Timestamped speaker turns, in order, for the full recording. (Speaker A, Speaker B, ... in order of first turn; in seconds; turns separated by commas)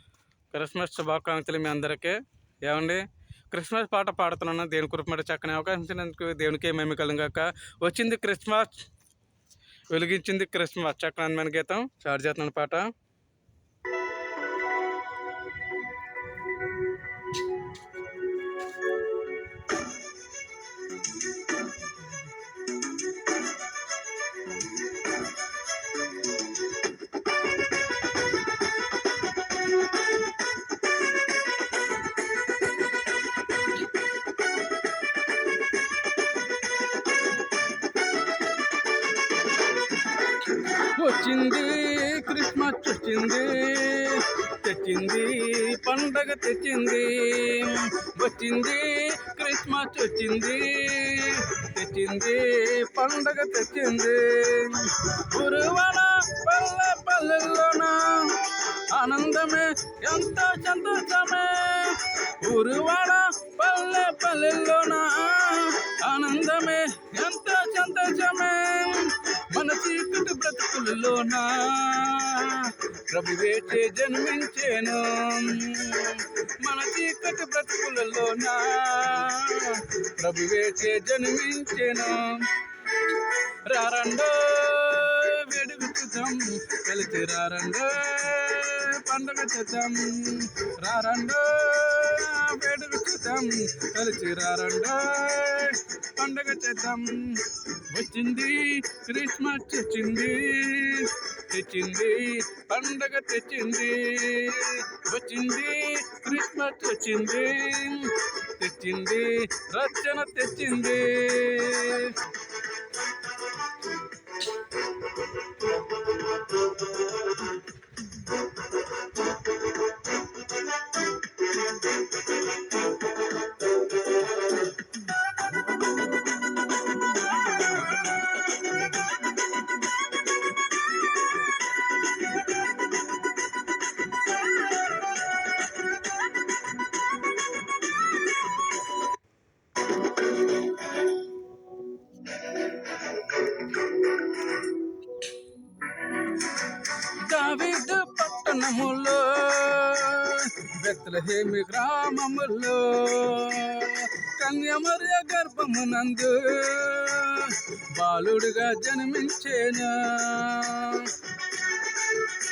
Speaker A: 0.5-8.9, Speaker A: 9.9-12.9, Speaker A: 40.4-112.2, Speaker A: 146.9-161.2